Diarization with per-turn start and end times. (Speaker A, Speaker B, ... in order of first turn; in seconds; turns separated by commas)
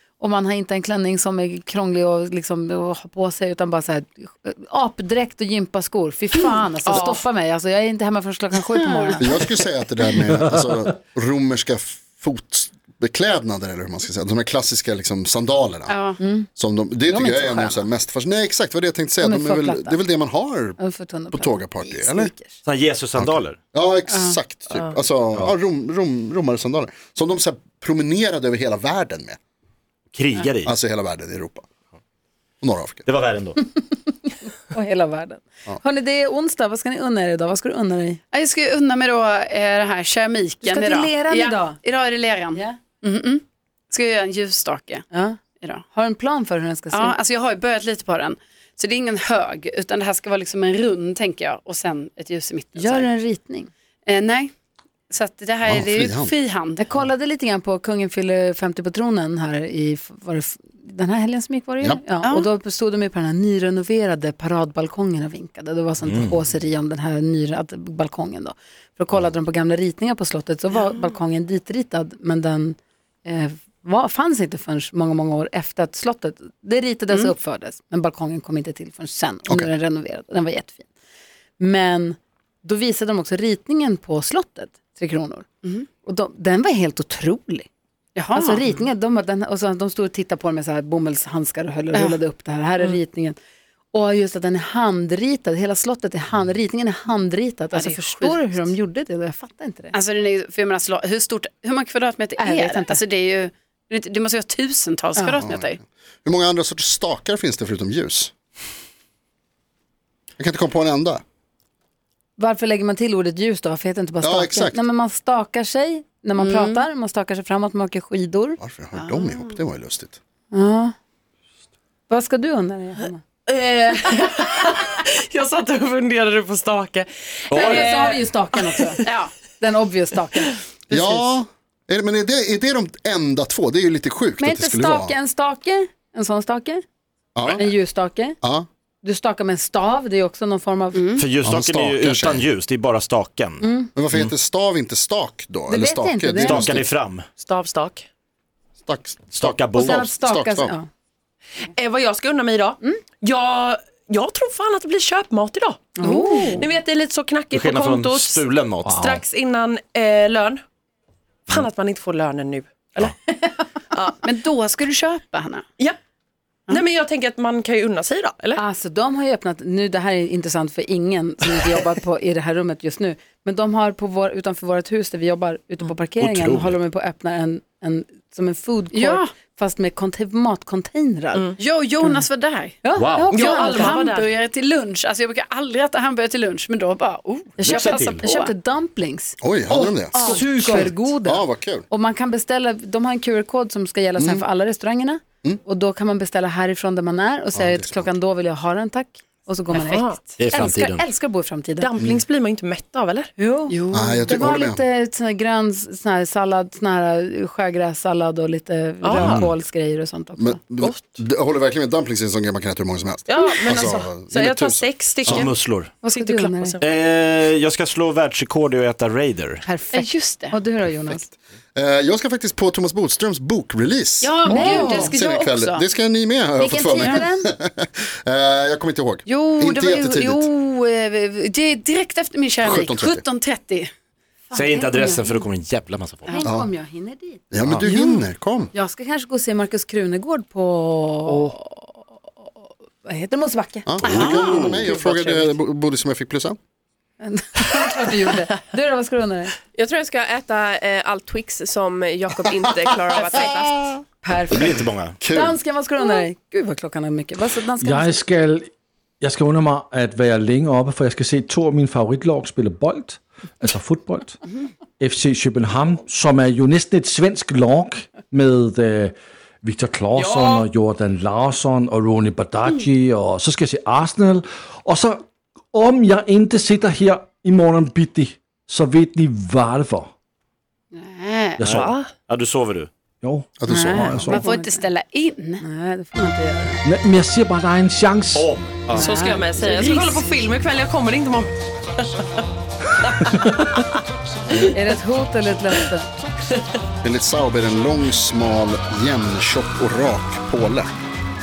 Speaker A: 0.2-9.4, Speaker B: 6.9-7.2, Speaker C: 9.2-15.9, Speaker B: 15.9-16.2, Speaker A: 16.2-16.5, Speaker C: 16.6-20.8, Speaker A: 17.1-17.9, Speaker A: 19.2-20.0, Speaker A: 20.8-22.6, Speaker C: 21.3-22.3, Speaker D: 22.6-23.6, Speaker C: 23.2-29.4, Speaker D: 30.1-30.7, Speaker C: 30.6-31.6, Speaker C: 32.6-33.1, Speaker D: 33.1-33.6, Speaker A: 34.7-38.2, Speaker B: 38.3-45.0, Speaker A: 40.6-41.8, Speaker A: 42.5-42.8, Speaker A: 45.1-47.2, Speaker B: 46.9-53.1, Speaker A: 52.8-53.7, Speaker B: 54.1-54.5, Speaker B: 55.1-56.8, Speaker C: 55.6-56.3, Speaker A: 56.8-80.9, Speaker B: 62.2-62.5, Speaker D: 66.0-66.3, Speaker A: 81.6-85.5, Speaker A: 86.0-87.7, Speaker B: 88.2-88.8, Speaker A: 88.3-93.4, Speaker B: 91.9-92.2, Speaker A: 93.9-100.0, Speaker B: 97.7-98.7, Speaker B: 99.9-105.8, Speaker A: 102.4-103.0, Speaker A: 105.2-105.4, Speaker C: 105.4-108.3, Speaker C: 110.4-111.2, Speaker A: 112.4-118.6, Speaker C: 114.2-114.8, Speaker B: 116.4-116.8, Speaker C: 118.6-120.2, Speaker B: 119.0-119.5, Speaker A: 120.5-120.9, Speaker A: 122.1-123.2, Speaker E: 123.6-128.9, Speaker D: 127.5-127.8, Speaker A: 127.5-129.1, Speaker B: 129.0-129.3, Speaker A: 129.6-130.6, Speaker C: 130.9-135.2, Speaker B: 130.9-131.2, Speaker A: 134.4-136.8, Speaker C: 137.3-137.7, Speaker A: 137.6-138.4, Speaker C: 138.4-138.7, Speaker A: 139.0-141.1, Speaker B: 140.9-141.3, Speaker D: 141.2-144.3, Speaker C: 141.4-142.4, Speaker A: 143.6-143.9, Speaker C: 143.9-146.8, Speaker A: 145.7-146.8, Speaker D: 146.4-147.3, Speaker E: 147.4-148.1, Speaker C: 148.8-150.8, Speaker D: 149.3-150.0, Speaker A: 149.8-150.9, Speaker E: 151.7-160.6, Speaker B: 156.0-156.7, Speaker A: 156.0-156.7, Speaker D: 157.5-159.2, Speaker E: 161.5-164.2, Speaker B: 164.2-165.7, Speaker E: 166.7-168.6, Speaker A: 168.6-182.3, Speaker D: 176.2-176.8, Speaker B: 178.9-179.3, Speaker B: 181.6-182.8, Speaker A: 182.8-184.0, Speaker D: 183.0-183.4, Speaker E: 183.3-184.3, Speaker B: 183.4-188.5, Speaker A: 187.6-201.9, Speaker D: 187.8-188.2, Speaker C: 189.4-191.9, Speaker B: 190.3-190.8, Speaker C: 194.2-194.4, Speaker C: 197.5-198.1, Speaker E: 199.7-200.3, Speaker D: 200.4-201.0, Speaker E: 201.8-203.3, Speaker A: 203.4-210.6, Speaker B: 203.7-204.3, Speaker C: 203.9-204.8, Speaker E: 209.0-209.4, Speaker C: 209.2-209.5, Speaker D: 209.2-209.5, Speaker C: 210.4-215.5, Speaker E: 210.8-211.2, Speaker E: 213.3-216.9, Speaker A: 213.4-213.9, Speaker D: 215.4-216.0, Speaker A: 216.0-216.8, Speaker D: 216.8-219.7, Speaker A: 219.7-221.3, Speaker B: 219.9-220.6, Speaker C: 221.8-230.5, Speaker B: 224.2-225.8, Speaker A: 224.4-225.2, Speaker A: 226.6-227.5, Speaker B: 229.3-233.9, Speaker C: 232.6-233.2, Speaker A: 234.5-235.2, Speaker D: 234.5-236.4, Speaker A: 236.3-237.4, Speaker C: 236.4-236.7, Speaker C: 237.5-238.7, Speaker A: 238.7-241.6, Speaker A: 243.1-245.4, Speaker C: 243.9-246.6, Speaker D: 244.1-244.9, Speaker A: 247.2-249.6, Speaker F: 249.8-253.9, Speaker A: 254.2-258.2, Speaker D: 254.5-255.2, Speaker C: 255.2-255.6, Speaker G: 257.8-264.4, Speaker G: 265.0-280.1, Speaker E: 270.1-270.7, Speaker B: 280.9-281.6, Speaker G: 281.6-281.9, Speaker E: 281.6-282.1, Speaker D: 281.7-282.9, Speaker G: 283.2-284.4, Speaker C: 283.6-284.4, Speaker A: 283.7-284.9, Speaker B: 284.2-285.6, Speaker A: 285.6-286.8, Speaker G: 286.8-288.5, Speaker D: 288.3-289.1, Speaker A: 288.9-290.4, Speaker E: 289.0-292.2, Speaker A: 294.5-296.1, Speaker E: 296.5-296.8, Speaker C: 297.0-300.9